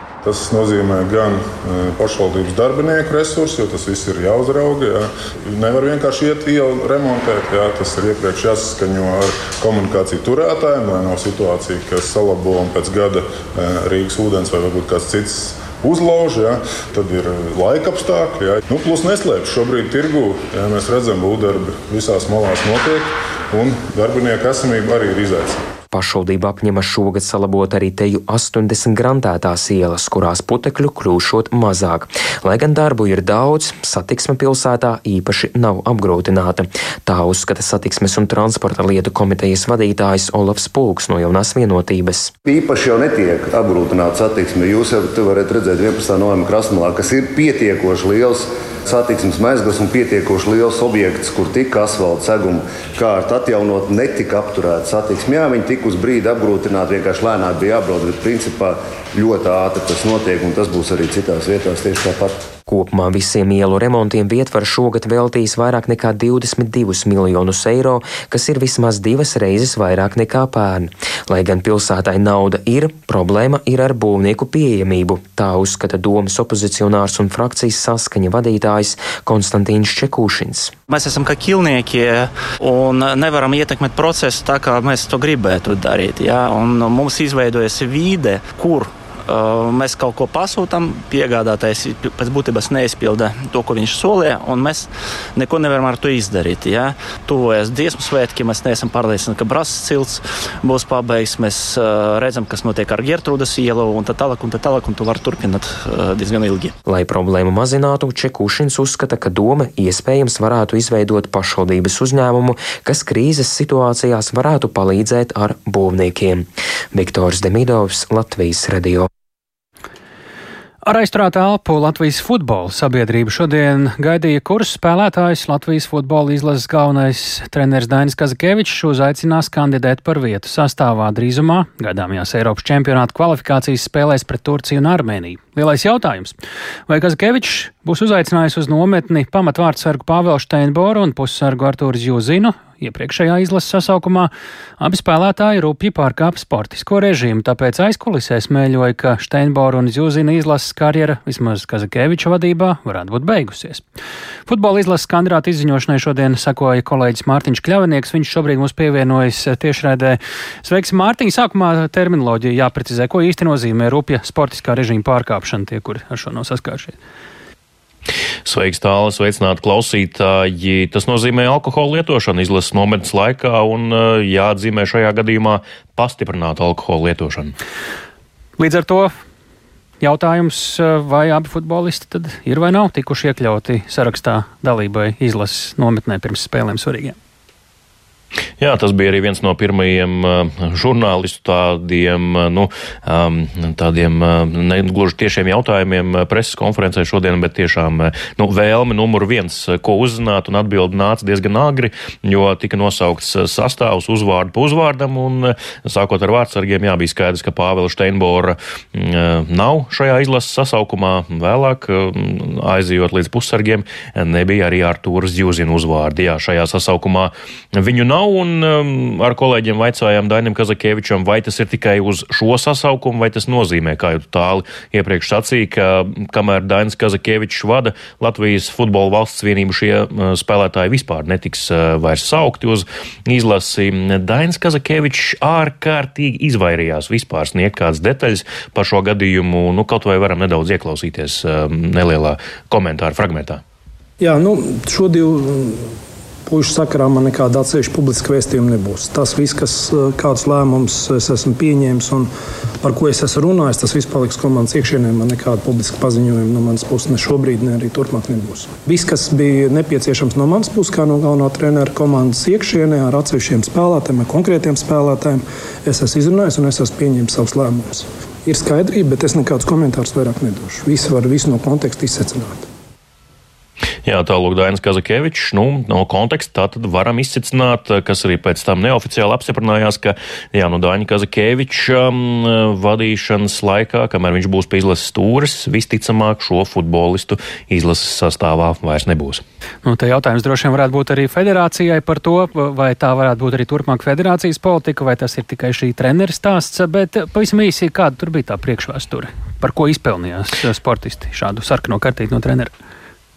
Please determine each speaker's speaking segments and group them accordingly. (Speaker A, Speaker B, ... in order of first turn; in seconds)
Speaker A: 0.2-25.6
Speaker B: 25.9-42.3, 62.7-80.7, 106.9-119.1
Speaker C: 42.5-62.5
Speaker D: 80.9-106.7
Speaker E: 120.8-136.3, 136.9-153.8, 154.5-167.0, 178.6-179.1, 180.0-187.2, 289.9-302.7
Speaker F: 168.5-177.5, 188.6-243.6, 274.1-289.4
Speaker G: 244.2-245.9, 246.5-272.7